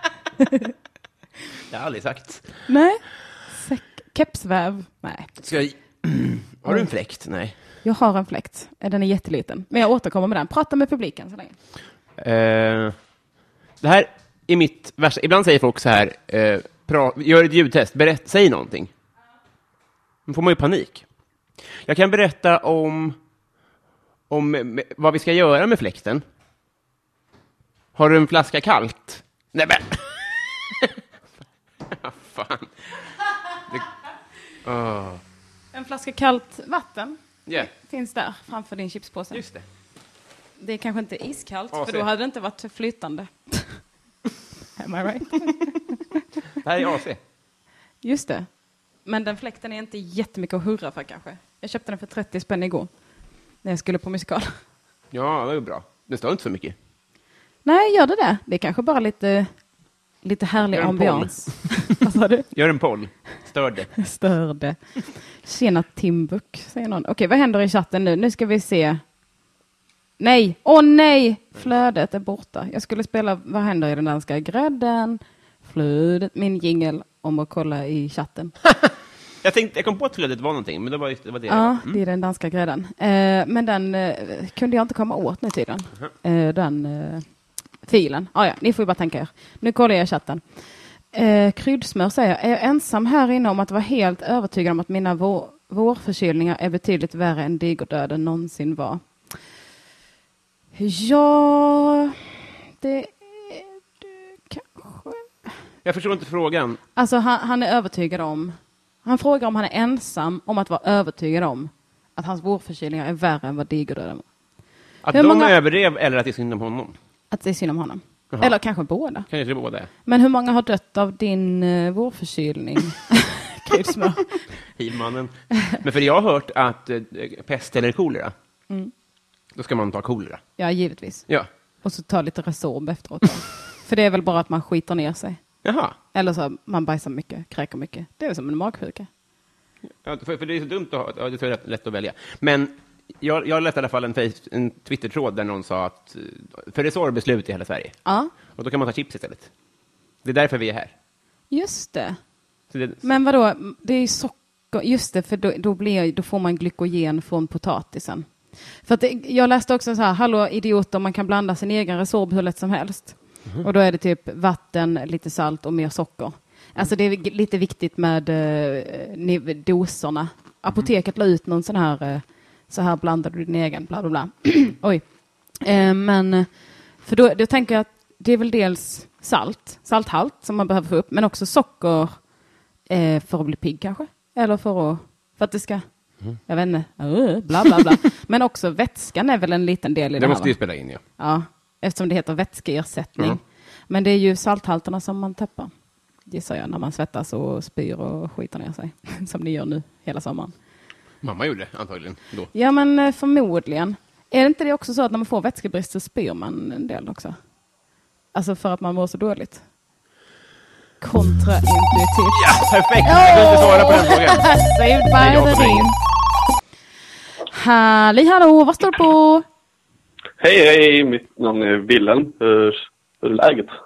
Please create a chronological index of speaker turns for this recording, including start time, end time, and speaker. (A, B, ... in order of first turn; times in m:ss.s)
0:00.4-0:00.7 A
0:01.7-0:02.5 B
0:02.7-0:05.3 A
0:05.4-0:07.6 B
0:07.8-0:11.6 A
0:12.2-0:13.0 B
0:13.8-0:18.9 B
0:20.3-0:21.0 B
0:21.8-0:23.2 B
0:24.3-0:26.2 B
0:28.0-0:31.0 B
0:31.9-0:32.8 B
0:34.6-0:35.2 B
0:35.7-0:39.4 A
0:39.3-0:39.6 B
0:40.6-0:43.8 A
0:41.7-0:42.1 B
0:44.8-0:46.0 A
0:46.6-0:47.2 B
0:48.0-0:48.5 A
0:49.0-0:52.9 A
0:53.6-0:54.5 A
0:55.1-0:56.8 B
0:57.6-0:59.5 A
1:00.2-1:02.5 A
1:00.7-1:02.0 B
1:02.5-1:03.9 B
1:04.0-1:04.8 A
1:05.4-1:09.0 A
1:10.2-1:18.6 A
1:18.6-1:22.0 B
1:21.5-1:27.3 A
1:27.9-1:30.4 A
1:31.1-1:39.0 A
1:40.8-1:42.2 A
1:42.8-1:45.3 A
1:45.8-1:46.8 B
1:47.0-1:54.3 A
1:55.0-1:57.0 B
1:55.1-1:55.5 A
1:57.3-1:59.3 A
1:59.3-1:59.9 B
2:00.0-2:04.4 A
2:04.8-2:08.3 B
2:09.5-2:10.4 B
2:10.6-2:11.3 A
2:11.8-2:15.4 A
2:15.6-2:16.0 B
2:16.1-2:19.1 A
2:19.9-2:28.0 B
2:28.0-2:28.3 A
2:28.6-2:29.5 B
2:30.2-2:30.9 B
2:31.5-2:32.2 A
2:32.7-2:33.0 B
2:33.0-2:38.3 A
2:38.8-3:02.2 A
3:02.9-3:05.8 A
3:06.4-3:10.6 A
3:10.2-3:11.0 B
3:11.2-3:15.7 A
3:16.3-3:20.5 A
3:21.2-3:22.5 B
3:22.5-3:27.4 A
3:28.3-3:29.6 A
3:31.0-3:36.0 A
3:32.3-3:34.5 B
3:35.2-3:35.9 B
3:37.5-3:39.4 A
3:40.4-3:43.7 C